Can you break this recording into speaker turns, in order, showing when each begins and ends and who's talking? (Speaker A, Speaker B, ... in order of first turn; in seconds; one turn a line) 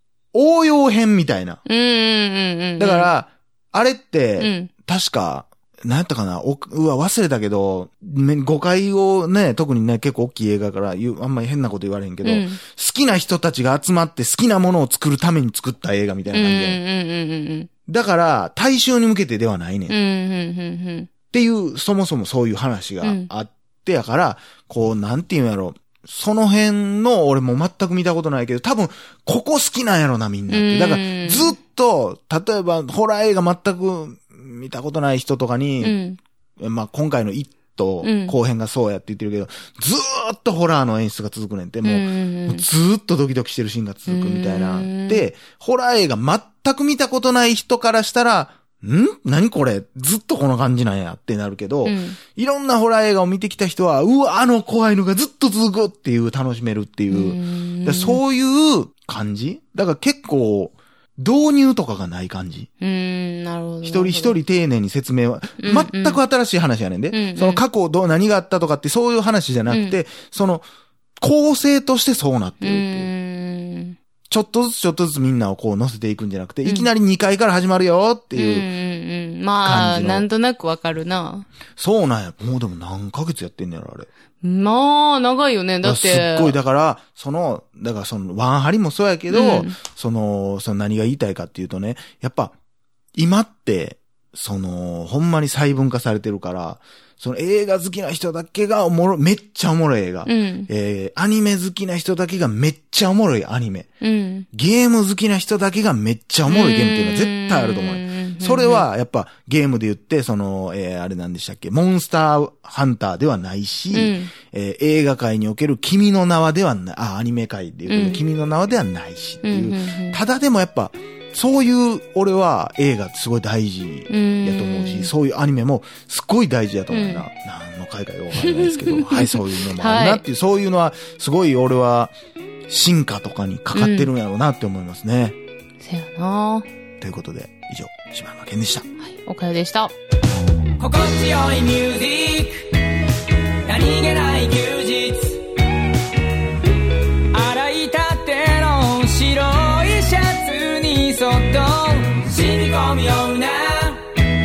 Speaker A: 0.3-1.6
Speaker B: 1.7-3.1
Speaker A: 2.8-16.8
Speaker B: 4.4-4.7
Speaker B: 12.2-12.6
Speaker B: 16.3-17.7
Speaker A: 17.9-19.9
Speaker B: 19.9-21.1
Speaker A: 21.3-36.0
Speaker B: 23.0-23.3
Speaker B: 30.5-31.6
Speaker B: 35.8-36.2
Speaker A: 36.6-62.7
Speaker B: 38.0-38.4
Speaker B: 41.8-42.6
Speaker B: 44.1-45.3
Speaker B: 51.9-52.2
Speaker B: 57.1-58.2
Speaker B: 62.8-64.4
Speaker A: 63.8-70.7
Speaker B: 65.6-66.2
Speaker B: 67.1-67.6
Speaker B: 69.7-70.0
Speaker A: 71.2-73.1
Speaker B: 72.6-74.0
Speaker A: 74.3-78.7
Speaker B: 78.3-81.5
Speaker A: 79.6-80.2
Speaker A: 81.8-84.1
Speaker B: 84.4-86.6
Speaker A: 85.8-92.5
Speaker B: 89.3-89.8
Speaker A: 93.2-103.9
Speaker B: 100.2-100.7
Speaker B: 104.0-104.5
Speaker A: 104.5-132.1
Speaker B: 106.5-108.9
Speaker B: 113.9-114.3
Speaker B: 117.9-118.2
Speaker B: 119.5-120.2
Speaker B: 124.1-125.1
Speaker B: 126.9-127.2
Speaker B: 128.4-130.2
Speaker A: 132.7-135.4
Speaker B: 133.8-134.1
Speaker B: 135.8-136.7
Speaker A: 137.0-138.9
Speaker B: 139.0-139.9
Speaker C: 140.8-142.7
Speaker C: 143.7-145.4
Speaker C: 147.3-154.2